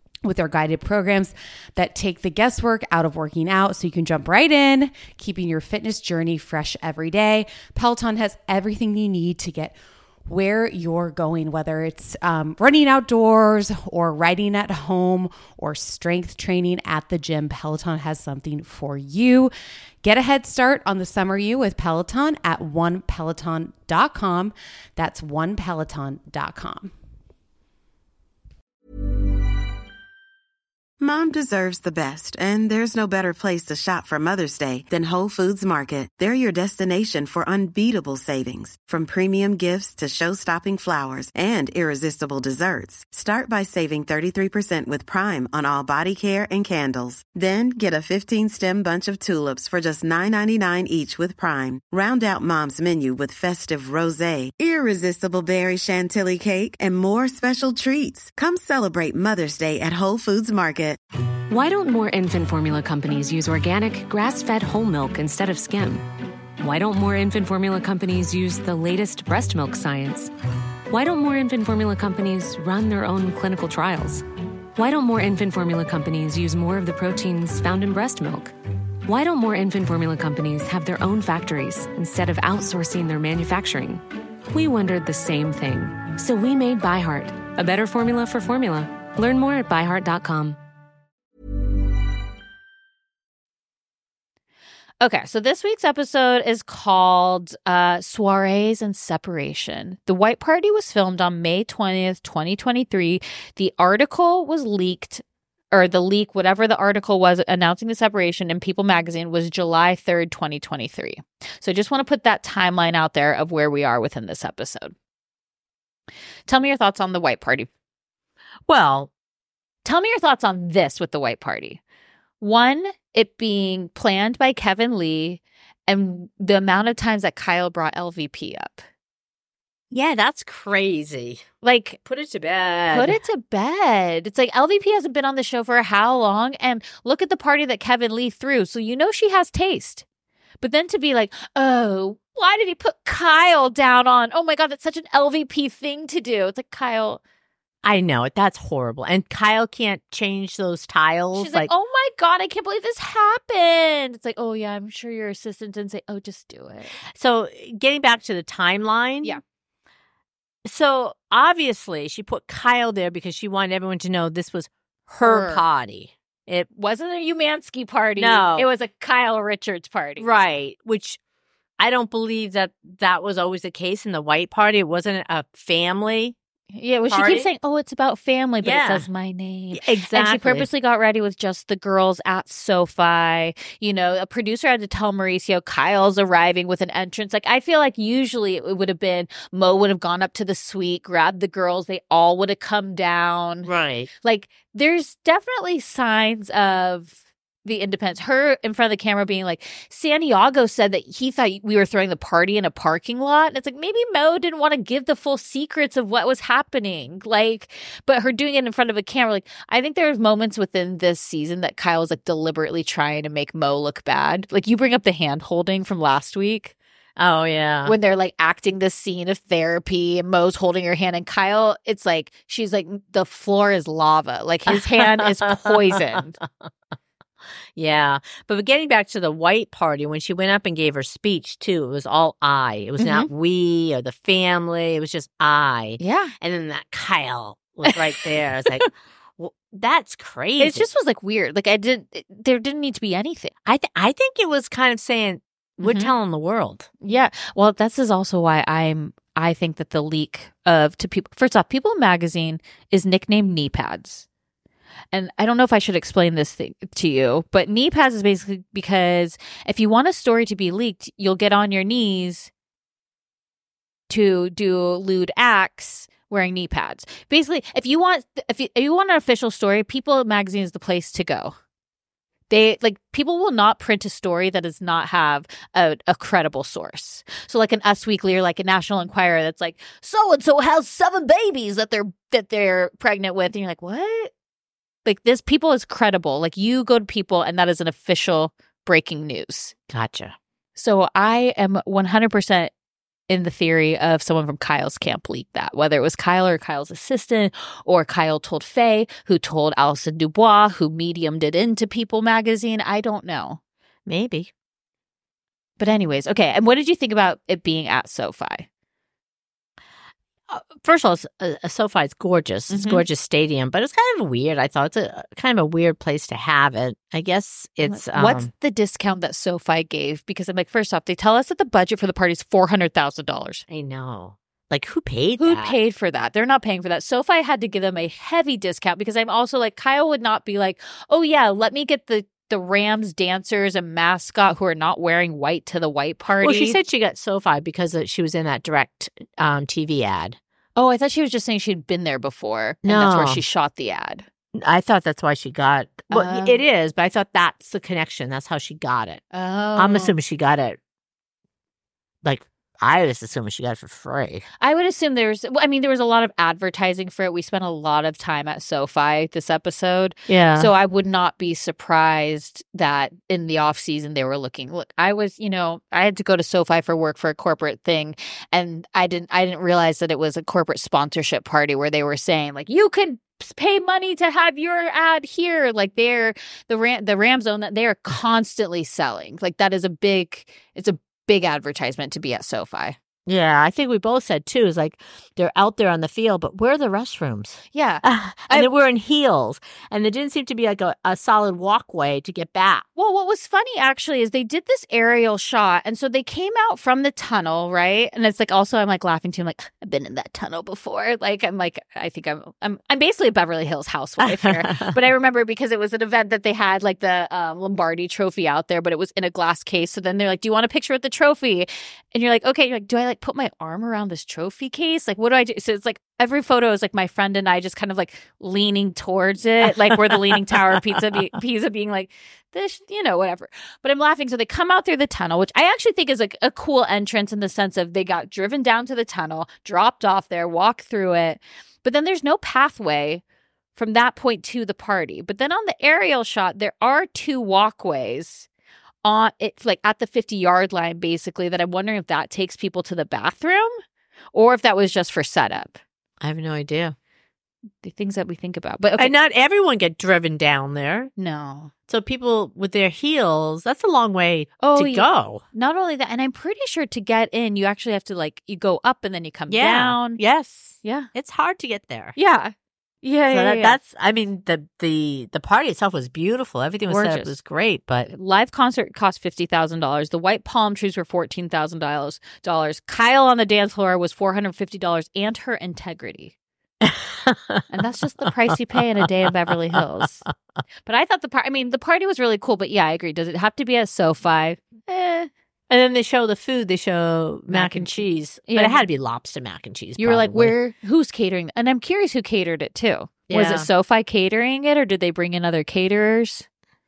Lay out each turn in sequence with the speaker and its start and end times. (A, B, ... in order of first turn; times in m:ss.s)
0:00.2-0:09.8 A
0:10.3-0:19.5 A
0:20.0-0:26.9 A
0:31.0-1:01.0 B
1:01.5-1:06.0 C
1:06.6-1:10.3 C
1:10.9-1:14.2 C
1:14.8-1:18.5 C
1:19.0-1:30.6 C
1:35.0-1:54.9 D
1:56.5-1:57.7 D
1:58.7-1:59.1 E
1:59.8-2:01.8 D
2:02.4-2:08.8 D
2:09.9-2:11.4 E
2:11.6-2:12.0 D
2:12.0-2:13.2 E
2:12.9-2:20.0 D
2:20.6-2:27.2 D
2:27.8-2:31.7 E
2:31.3-2:37.0 D
2:37.1-2:39.4 E
2:40.6-2:46.7 E
2:45.2-2:45.6 D
2:46.7-2:50.3 D
2:48.2-2:48.7 E
2:50.2-2:51.2 E
2:51.8-2:56.4 E
2:56.7-3:13.7 D
2:57.1-2:57.5 E
2:58.6-2:59.1 E
2:59.7-3:00.7 E
3:13.6-3:14.1 E
3:14.2-3:36.7 D
3:37.2-3:38.0 E
3:37.9-3:46.4 D
3:44.7-3:46.7 E
3:47.7-4:00.9 E
3:53.0-3:53.3 D
3:56.0-3:56.3 D
3:57.9-3:58.2 D
4:00.6-4:03.5 D
4:03.6-4:06.9 E
4:05.8-4:06.1 D
4:07.0-4:14.2 D
4:15.1-4:22.5 D
4:24.1-4:31.6 D
4:32.5-4:44.3 D
4:45.0-4:49.7 D
4:49.9-4:50.3 E
4:50.8-4:52.7 D
4:53.3-5:03.6 D
5:04.1-5:04.5 E
5:05.8-5:08.6 D
5:10.5-5:18.5 E
5:12.7-5:13.0 D
5:17.8-5:23.6 D
5:23.7-5:25.8 E
5:25.4-5:36.8 D
5:36.4-5:40.4 E
5:40.8-5:44.3 D
5:42.8-5:43.4 E
5:44.6-5:49.2 E
5:46.1-5:46.6 D
5:49.3-5:50.1 D
5:49.8-5:50.8 E
5:52.2-5:54.4 E
5:54.6-6:23.0 D
6:00.3-6:00.7 E
6:23.3-6:32.9 E
6:27.7-6:28.7 D
6:33.0-7:13.2 D
6:44.3-6:44.9 E
7:13.8-7:18.5 D
7:19.0-7:23.8 D
7:24.3-7:25.8 D
7:26.2-7:27.0 E
7:27.8-7:29.1 D
7:29.0-7:31.1 E
7:31.2-7:31.7 D
7:31.9-7:35.4 E
7:34.6-7:40.2 D
7:39.5-7:42.2 E
7:40.8-7:41.1 D
7:42.2-7:43.8 D
7:43.3-7:48.1 E
7:46.9-7:47.4 D
7:48.1-7:56.3 D
7:56.8-7:57.6 E
7:57.7-8:00.3 D
8:00.8-8:05.3 D
8:05.7-8:10.6 E
8:07.5-8:08.8 D
8:10.0-8:16.4 D
8:13.3-8:13.7 E